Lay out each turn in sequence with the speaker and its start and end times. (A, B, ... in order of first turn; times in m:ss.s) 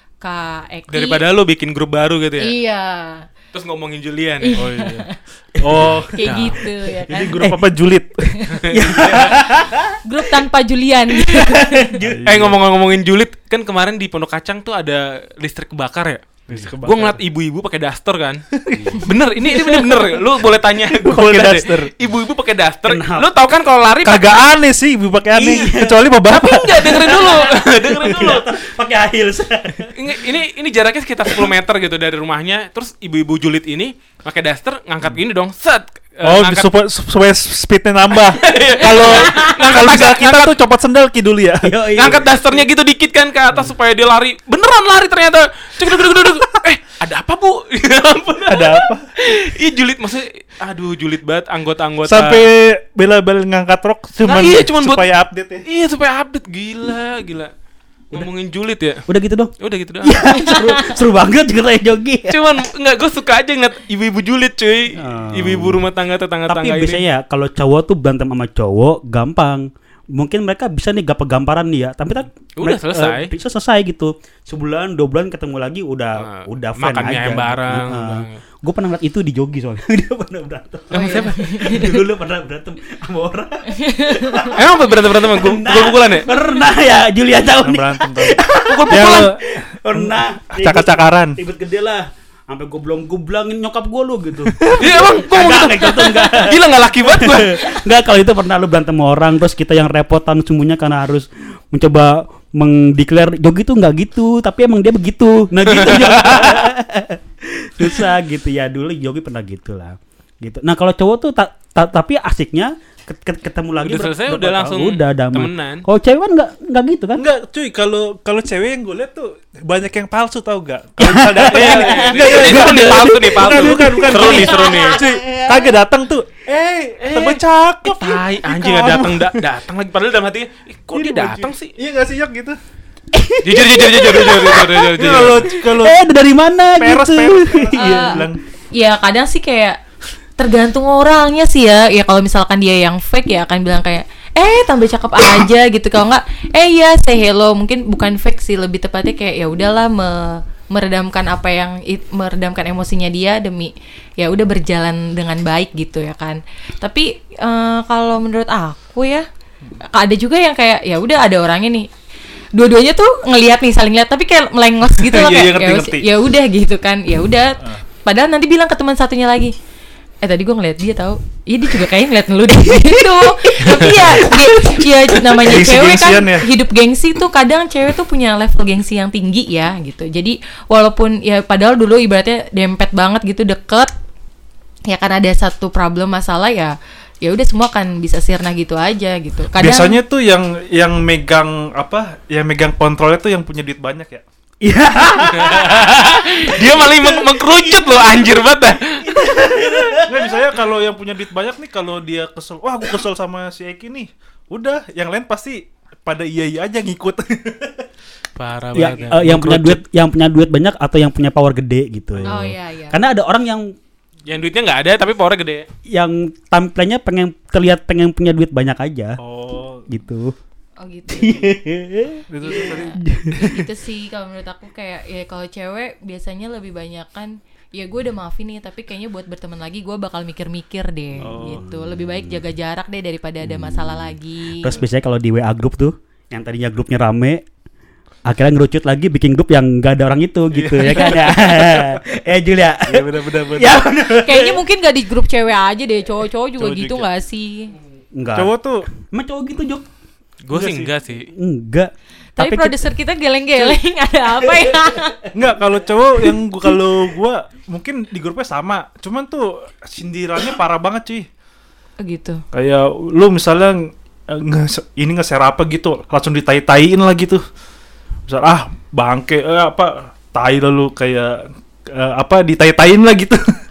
0:00.2-0:01.2 A
0:00.9-0:02.5 B
0:02.4-0:03.3 A
0:03.5-0:04.6 B
0:04.4-0:05.2 A
0:04.6-0:05.1 C
0:05.6-0:06.2 C
0:05.8-0:06.6 B
0:06.1-0:07.6 A
0:07.1-0:08.3 C
0:07.2-0:07.6 D
0:08.7-0:09.3 B
0:08.7-0:10.0 D
0:10.0-0:11.9 A
0:11.3-0:12.3 D
0:12.0-0:12.6 C
0:12.2-0:18.4 B
0:16.5-0:17.2 C
0:18.5-0:20.2 C
0:19.0-0:24.4 B
0:20.8-0:21.9 C
0:22.8-0:23.3 D
0:24.0-0:27.3 C
0:25.3-0:26.0 D
0:26.3-0:28.5 B
0:26.8-0:29.9 D
0:30.0-0:36.7 B
0:36.2-0:41.7 C
0:38.3-0:40.5 B
0:41.6-0:42.2 D
0:42.0-0:52.4 B
0:48.5-0:49.0 C
0:52.0-0:55.6 C
0:54.2-0:55.0 B
0:55.6-0:57.5 B
0:58.1-0:59.0 B
0:59.1-1:02.4 D
0:59.6-1:00.1 B
1:00.4-1:00.9 A
1:02.3-1:07.0 B
1:05.0-1:05.8 D
1:06.5-1:57.2 D
1:12.6-1:13.3 B
1:16.2-1:18.4 B
1:20.9-1:21.3 B
1:20.9-1:21.9 A
1:23.8-1:24.4 A
1:24.5-1:26.3 B
1:27.6-1:31.4 C
1:28.6-1:29.3 B
1:34.6-1:34.9 C
1:34.8-1:37.6 B
1:45.6-1:46.7 B
1:53.8-1:55.8 B
1:57.2-2:09.4 C
2:01.0-2:05.7 D
2:01.4-2:05.0 B
2:07.0-2:11.7 B
2:10.9-2:12.6 C
2:13.1-2:14.9 D
2:13.4-2:15.5 B
2:15.0-2:16.0 C
2:15.8-2:18.3 D
2:16.8-2:18.4 C
2:17.8-2:19.8 A
2:20.4-2:39.2 A
2:39.8-2:41.9 A
2:42.5-2:49.5 A
2:45.0-2:46.1 C
2:50.2-3:03.9 A
2:55.3-2:56.5 C
3:04.8-3:10.0 A
3:09.5-3:14.2 C
3:14.6-3:18.0 D
3:15.2-3:19.1 B
3:19.0-3:20.4 D
3:20.0-3:27.8 C
3:28.4-3:29.8 B
3:28.7-3:33.7 D
3:32.2-3:33.0 A
3:34.2-3:35.6 B
3:35.9-3:39.2 D
3:39.2-3:39.9 C
3:39.9-3:40.3 D
3:40.8-3:41.5 A
3:41.1-3:43.6 D
3:42.3-3:43.0 C
3:42.4-3:54.7 A
3:51.2-3:51.6 C
3:51.5-3:52.3 D
3:53.4-3:57.4 D
3:58.3-4:04.6 D
4:00.5-4:02.0 C
4:00.9-4:01.2 A
4:02.9-4:03.9 C
4:04.2-4:07.7 A
4:06.6-4:07.1 C
4:08.1-4:09.8 D
4:08.3-4:08.9 C
4:10.4-4:11.3 B
4:10.5-4:10.9 C
4:11.3-4:12.8 D
4:12.4-4:15.2 A
4:15.3-4:21.3 C
4:22.0-4:22.4 A
4:22.5-4:27.4 C
4:28.3-4:33.4 C